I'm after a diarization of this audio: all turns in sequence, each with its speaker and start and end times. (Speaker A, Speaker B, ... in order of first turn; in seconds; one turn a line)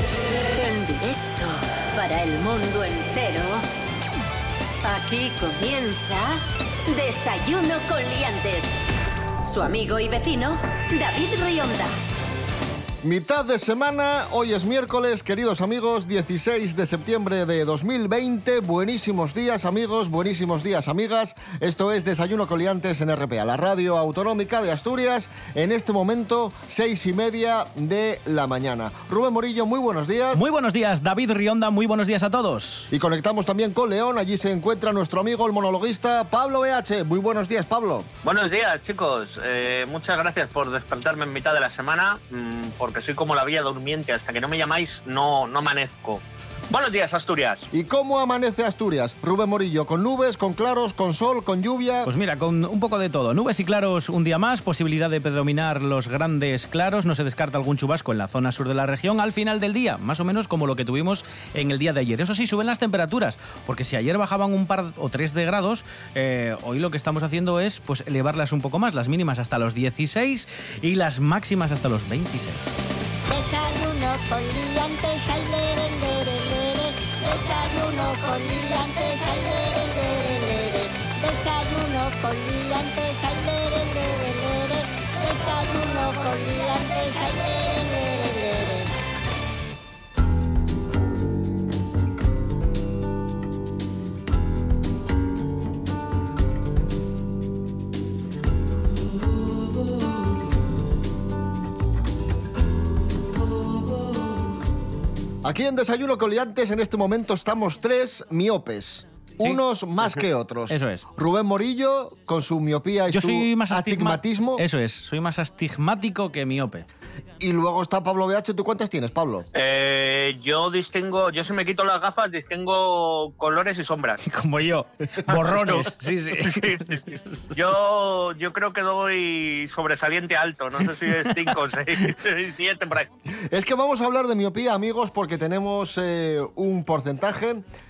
Speaker A: 0.4-3.6
Speaker A: 4.8-8.7
Speaker A: 9.4-11.9
Speaker B: 13.0-30.4
Speaker C: 30.3-32.9
Speaker B: 32.9-38.1
Speaker D: 38.2-47.7
Speaker B: 47.7-52.1
Speaker C: 52.0-72.7
Speaker E: 73.3-88.9
Speaker B: 105.4-114.6
Speaker C: 110.7-111.1
Speaker C: 113.1-116.8
Speaker B: 117.4-119.5
Speaker D: 119.5-124.2
Speaker C: 124.2-127.5
Speaker D: 125.3-133.1
Speaker C: 130.8-132.1
Speaker B: 133.4-137.6